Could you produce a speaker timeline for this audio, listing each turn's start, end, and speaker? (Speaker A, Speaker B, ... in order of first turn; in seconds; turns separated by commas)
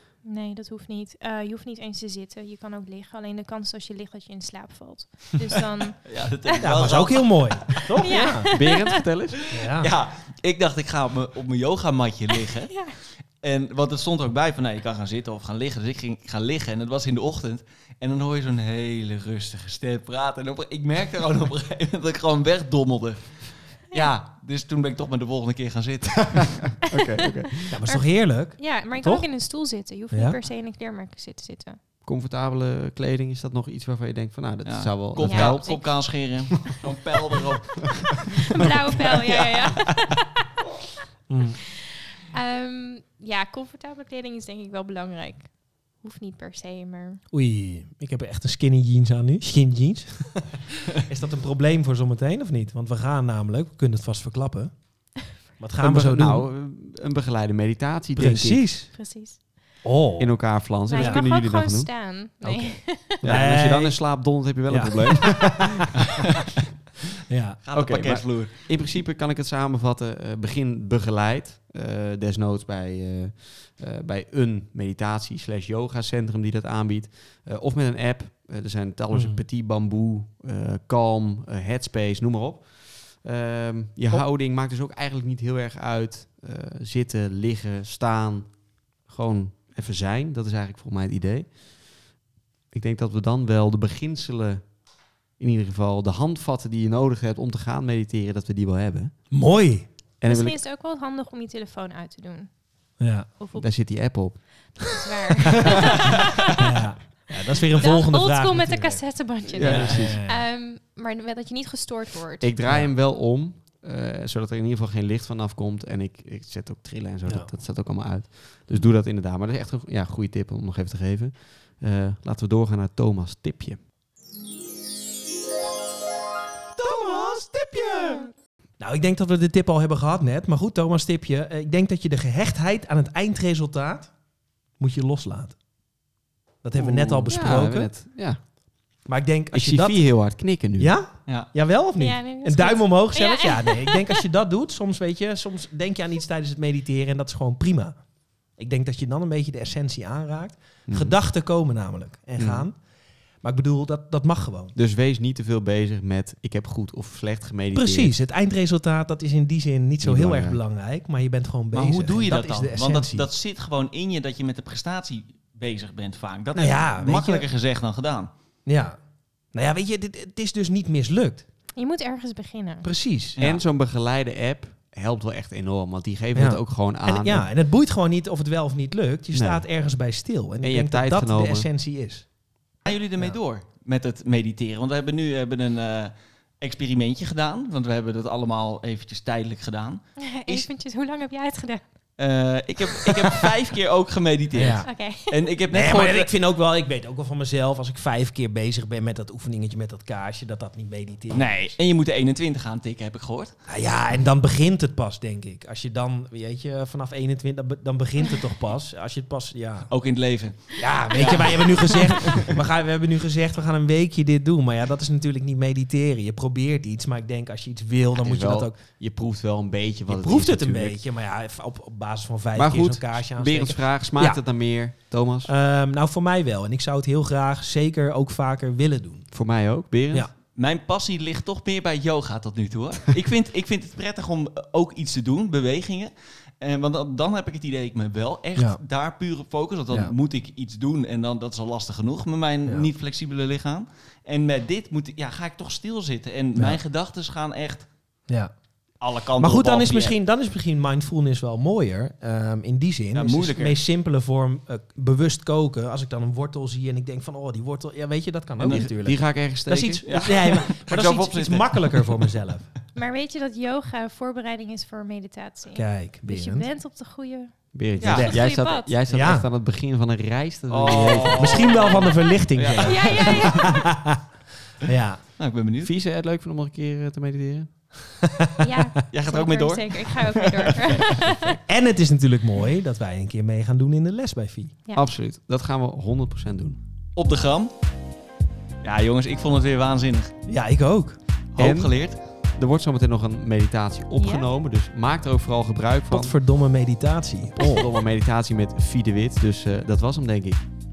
Speaker A: 0.2-6.7, Speaker B: 6.0-7.8, Speaker C: 6.6-8.5, Speaker A: 7.8-9.0, Speaker D: 8.5-9.4, Speaker C: 9.5-9.9, Speaker B: 9.6-26.8, Speaker A: 12.7-13.0, Speaker D: 26.8-27.7, Speaker A: 27.6-31.8, Speaker C: 27.7-29.3, Speaker C: 30.1-30.4, Speaker D: 32.0-35.7, Speaker B: 34.6-40.0, Speaker A: 35.2-36.8, Speaker A: 38.5-40.5, Speaker C: 41.3-41.6, Speaker A: 42.3-47.2, Speaker C: 47.3-56.5, Speaker D: 55.8-58.7, Speaker C: 58.2-58.9, Speaker A: 58.9-59.6, Speaker C: 59.8-61.2, Speaker D: 60.2-62.1, Speaker A: 60.9-63.3, Speaker C: 62.4-65.8, Speaker D: 63.2-65.9, Speaker C: 67.3-67.6, Speaker B: 67.6-68.9, Speaker D: 67.7-91.6, Speaker C: 79.1-79.4, Speaker D: 92.7-94.8, Speaker D: 95.4-99.1, Speaker C: 99.3-99.9, Speaker D: 100.2-100.6, Speaker A: 100.3-102.5, Speaker C: 103.0-103.3, Speaker A: 103.4-104.3, Speaker D: 103.5-104.8, Speaker A: 104.9-106.5, Speaker C: 106.5-109.0, Speaker A: 107.8-112.5, Speaker D: 109.5-110.2, Speaker C: 109.6-110.4, Speaker D: 112.4-123.8, Speaker C: 127.2-128.2, Speaker C: 128.8-134.2, Speaker C: 134.8-135.6, Speaker C: 136.6-137.9, Speaker D: 136.8-138.4, Speaker C: 139.1-152.9, Speaker D: 139.5-141.0, Speaker A: 142.0-144.1, Speaker D: 150.9-151.2, Speaker D: 152.4-152.7, Speaker C: 153.4-154.8, Speaker D: 154.8-158.2, Speaker C: 157.7-163.3, Speaker D: 160.0-160.6, Speaker B: 161.7-168.3, Speaker C: 166.6-167.4, Speaker C: 168.7-169.0, Speaker C: 169.5-171.5, Speaker A: 171.7-172.9, Speaker C: 172.8-173.4, Speaker B: 173.4-173.6, Speaker D: 173.4-177.5, Speaker C: 176.3-182.3, Speaker D: 179.3-179.7, Speaker D: 180.6-181.7, Speaker B: 182.8-190.7, Speaker A: 190.2-191.8, Speaker B: 192.2-196.3, Speaker C: 194.5-194.9, Speaker A: 194.8-195.4, Speaker C: 195.7-201.8, Speaker B: 201.3-203.6, Speaker C: 203.7-209.9, Speaker B: 209.9-212.5, Speaker C: 210.8-218.8, Speaker D: 218.2-221.0, Speaker C: 220.1-224.4, Speaker D: 222.5-225.5, Speaker C: 225.4-229.3, Speaker D: 229.3-230.3, Speaker B: 230.6-247.9, Speaker C: 246.6-246.8, Speaker C: 248.3-248.5, Speaker B: 249.0-250.2, Speaker C: 249.4-262.7, Speaker B: 253.1-253.8, Speaker B: 258.6-259.1, Speaker D: 258.7-260.1, Speaker B: 260.0-262.3, Speaker A: 262.9-269.0, Speaker C: 265.8-266.7, Speaker D: 267.7-271.9, Speaker B: 268.0-268.4, Speaker C: 268.1-268.4, Speaker C: 269.1-269.5, Speaker B: 270.7-273.7, Speaker C: 270.9-274.3, Speaker D: 272.5-273.5, Speaker A: 272.7-273.8, Speaker C: 274.8-275.2, Speaker B: 275.4-275.9, Speaker D: 275.8-277.7, Speaker C: 278.4-278.9, Speaker A: 278.6-281.6, Speaker B: 279.1-281.4, Speaker C: 281.7-284.8, Speaker D: 284.9-286.8, Speaker B: 287.1-287.7, Speaker B: 288.8-290.3, Speaker C: 290.5-291.2, Speaker B: 291.6-292.2, Speaker D: 291.6-296.4, Speaker A: 294.2-294.5, Speaker C: 296.1-297.9, Speaker D: 297.6-300.6